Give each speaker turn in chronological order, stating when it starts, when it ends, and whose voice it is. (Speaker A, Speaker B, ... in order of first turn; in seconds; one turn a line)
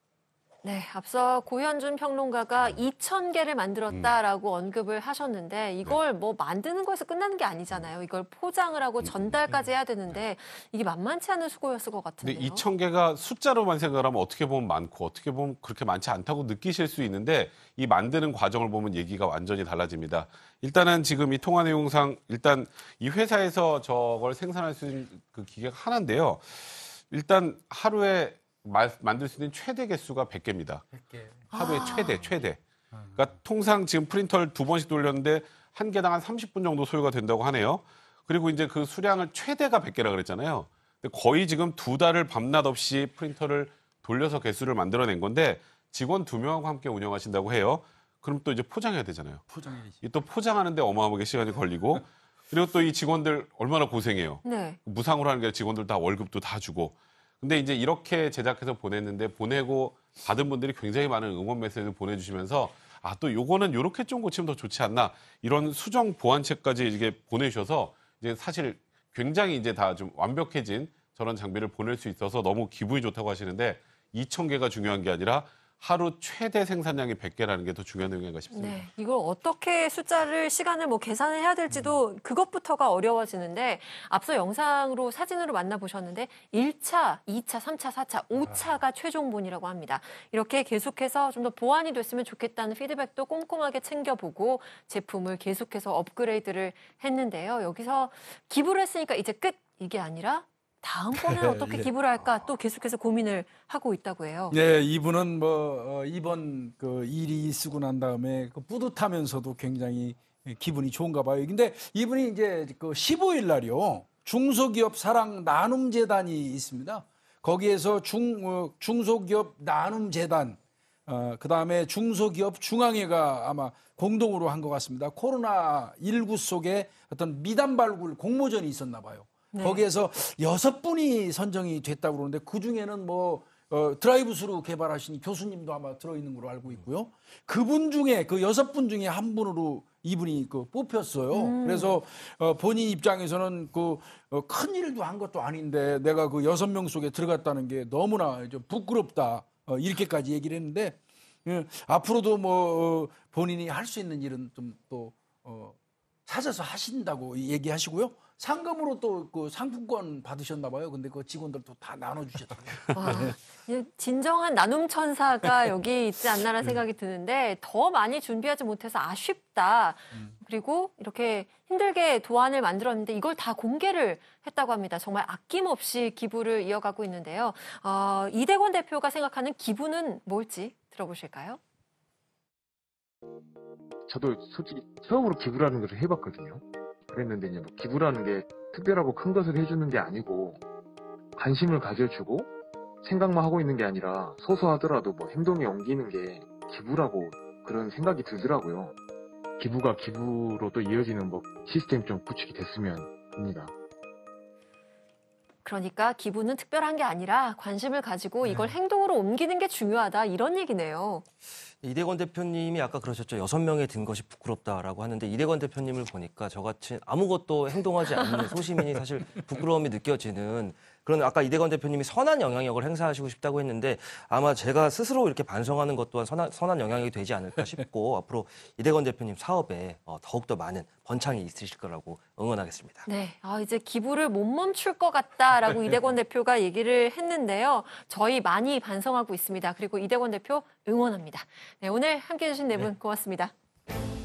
Speaker A: 0.6-12.7
Speaker B: 3.9-4.2
Speaker B: 9.0-9.6
Speaker B: 12.2-30.9
Speaker C: 31.0-31.4
Speaker A: 31.5-32.3
Speaker B: 31.5-32.6
Speaker C: 33.0-33.2
Speaker B: 33.1-49.4
Speaker C: 49.5-50.0
Speaker B: 50.0-78.9
Speaker A: 54.4-54.8
Speaker A: 78.5-104.6
Speaker C: 81.7-82.0
Speaker C: 101.2-101.9
Speaker C: 104.5-155.8
Speaker A: 129.5-129.8
Speaker A: 141.3-142.0
Speaker C: 156.3-163.4
Speaker A: 162.9-181.6
Speaker D: 184.1-190.6
Speaker D: 191.4-192.5
Speaker D: 193.0-198.9
Speaker D: 199.6-203.7
Speaker A: 205.6-211.2
Speaker C: 208.5-208.7
Speaker E: 211.8-233.1
Speaker A: 233.1-243.5